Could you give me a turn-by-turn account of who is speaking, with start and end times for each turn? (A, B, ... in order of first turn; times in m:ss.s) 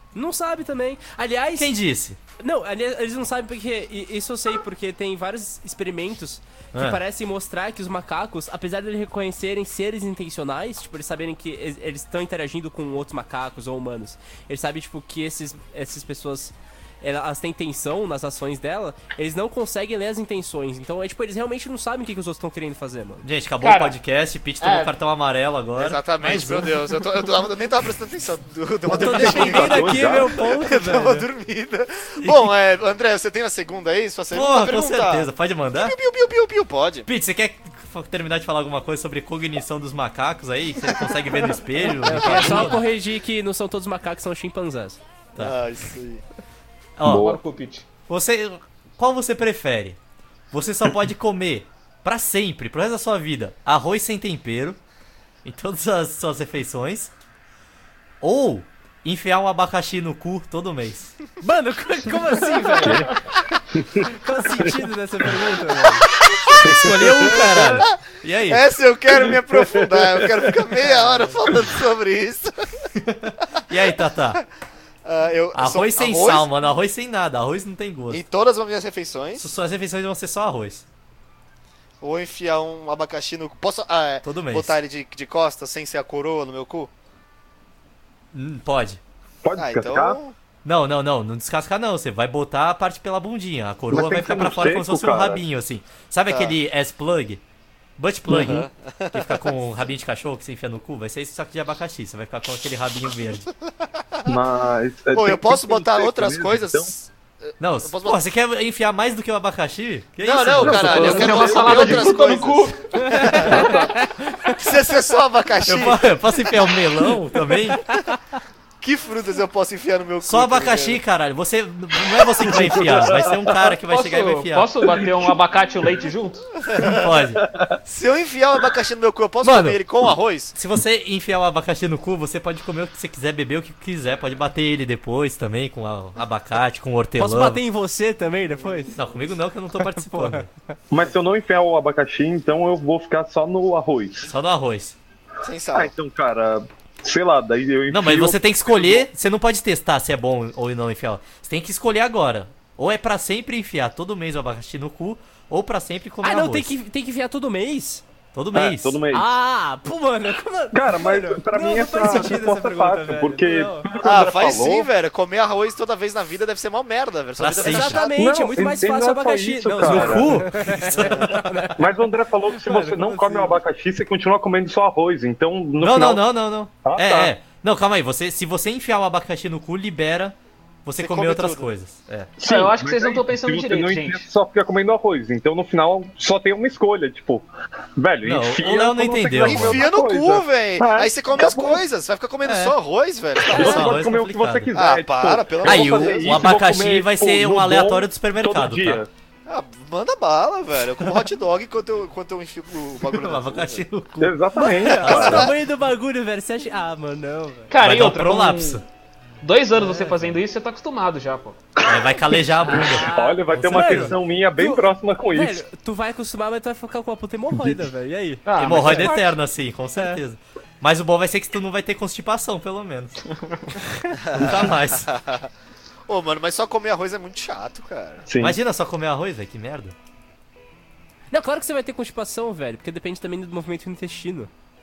0:00.1-0:01.7 A
0:01.5-0:02.2 B
0:02.4-0:23.2 A
0:06.7-0:07.0 B
0:23.2-0:26.7 B
0:23.6-0:24.0 C
0:24.6-0:24.9 C
0:25.8-0:37.1 D
0:28.9-0:31.3 A
0:28.9-0:30.4 E
0:29.2-0:29.7 B
0:32.2-0:32.5 B
0:34.3-0:36.0 B
0:37.0-0:42.8 B
0:41.9-0:45.0 A
0:45.4-0:46.2 D
0:47.0-0:47.3 B
0:47.0-0:47.4 E
0:47.1-0:47.8 C
0:48.1-0:50.0 B
0:50.5-0:54.8 B
0:55.4-0:57.1 B
0:58.2-1:01.1 B
1:01.4-1:03.2 A
1:02.8-1:03.1 E
1:03.7-1:04.8 E
1:04.0-1:06.1 A
1:06.5-1:08.6 B
1:06.5-1:07.8 E
1:08.5-1:12.6 D
1:09.1-1:10.5 E
1:13.0-1:14.4 B
1:15.0-1:16.5 D
1:15.5-1:18.2 B
1:18.1-1:19.5 D
1:19.4-1:20.8 B
1:22.0-1:26.9 D
1:24.2-1:24.8 B
1:28.3-1:29.0 B
1:29.4-1:30.2 E
1:29.6-1:30.3 D
1:30.6-1:37.4 B
1:33.9-1:35.4 E
1:36.3-1:36.5 D
1:38.0-1:43.5 B
1:38.3-1:38.6 E
1:38.4-1:39.4 D
1:44.2-1:46.9 E
1:45.1-1:48.2 D
1:47.6-1:51.5 B
1:50.2-1:53.9 D
1:50.6-1:52.6 E
1:50.8-1:53.2 C
1:53.0-1:54.6 A
1:53.3-1:53.9 E
1:54.5-1:56.1 D
1:55.6-1:57.9 B
1:58.8-2:01.0 D
2:00.2-2:04.7 B
2:02.4-2:03.8 E
2:03.9-2:06.5 C
2:04.8-2:05.3 E
2:06.7-2:07.1 D
2:06.8-2:07.4 B
2:07.5-2:07.8 E
2:07.8-2:10.5 D
2:09.4-2:09.8 B
2:10.5-2:17.6 B
2:17.2-2:19.0 A
2:18.6-2:18.9 D
2:18.9-2:20.5 B
2:19.8-2:20.5 A
2:20.9-2:24.3 E
2:24.2-2:25.0 B
2:25.4-2:25.9 D
2:25.7-2:29.1 E
2:27.9-2:36.7 B
2:36.2-2:38.0 A
2:38.3-2:39.0 B
2:38.5-2:39.3 E
2:39.1-2:43.9 A
2:40.7-2:44.9 E
2:44.0-2:48.2 D
2:47.4-2:48.1 B
2:47.6-2:51.8 A
2:48.2-2:50.4 E
2:49.8-2:51.5 B
2:50.9-2:51.2 D
2:51.7-2:56.2 E
2:52.5-2:53.6 A
2:55.8-3:02.3 B
2:56.8-2:57.3 E
3:01.0-3:01.7 D
3:02.4-3:11.8 E
3:02.4-3:04.2 C
3:08.2-3:09.8 B
3:09.4-3:14.0 D
3:12.4-3:12.8 B
3:13.4-3:19.1 E
3:13.5-3:14.7 B
3:14.7-3:16.5 D
3:15.6-3:19.0 B
3:19.5-3:23.8 D
3:23.1-3:24.4 B
3:24.2-3:25.5 E
3:24.6-3:27.7 A
3:24.9-3:25.5 B
3:25.1-3:25.5 D
3:27.7-3:28.8 C
3:27.8-3:28.8 B
3:29.4-3:31.6 C
3:29.8-3:30.3 A
3:31.8-3:34.1 B
3:32.7-3:39.3 A
3:32.7-3:35.6 E
3:37.5-3:37.8 E
3:38.4-3:39.2 C
3:38.6-3:43.2 B
3:40.0-3:40.2 A
3:44.2-3:45.5 D
3:44.3-3:45.1 B
3:46.1-3:48.2 D
3:48.2-3:48.6 E
3:48.4-3:49.9 B
3:51.3-3:54.5 A